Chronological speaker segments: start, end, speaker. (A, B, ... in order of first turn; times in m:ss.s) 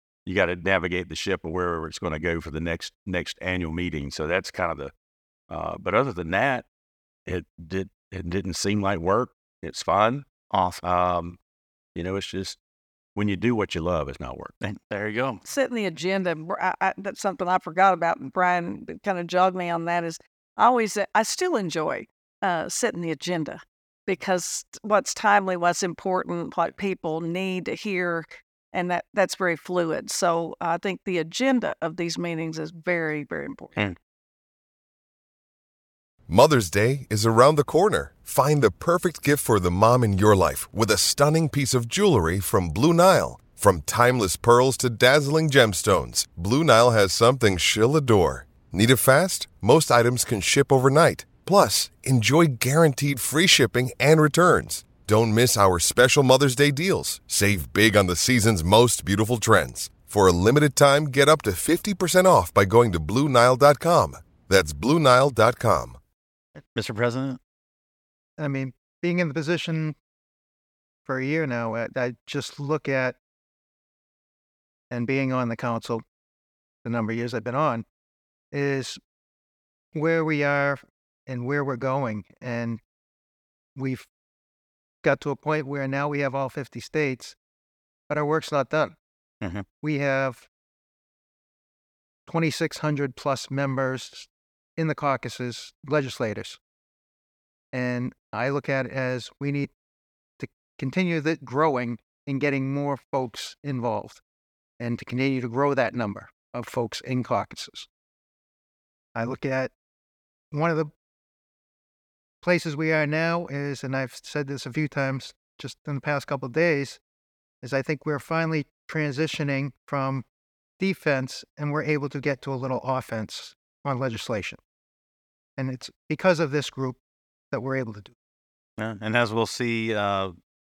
0:00.2-0:04.9 A
0:05.5-0:06.7 A
0:07.3-0:10.3 A
0:10.5-0:10.8 B
0:10.8-0:11.4 A
0:12.0-0:12.6 A
0:13.1-0:14.5 A
0:14.6-0:15.4 B
0:15.4-0:33.8 C
0:36.3-1:06.0 D
1:06.6-1:07.4 B
1:08.4-1:10.0 E
1:11.0-1:13.2 E
1:14.9-1:16.0 E
1:16.8-1:17.8 E
1:18.5-1:19.0 E
1:19.9-1:22.8 E
1:23.8-1:24.1 E
1:25.0-1:27.4 E
1:28.1-1:28.9 E
1:29.8-1:30.5 E
1:32.3-1:36.6 E
1:37.7-1:39.7 E
1:40.4-1:44.2 E
1:44.8-1:47.9 E
1:49.1-1:49.7 E
1:50.5-1:50.9 E
1:52.4-1:57.0 E
1:57.6-2:00.2 E
2:00.8-2:04.6 E
2:05.6-2:07.0 E
2:07.5-2:08.1 E
2:08.8-2:10.3 B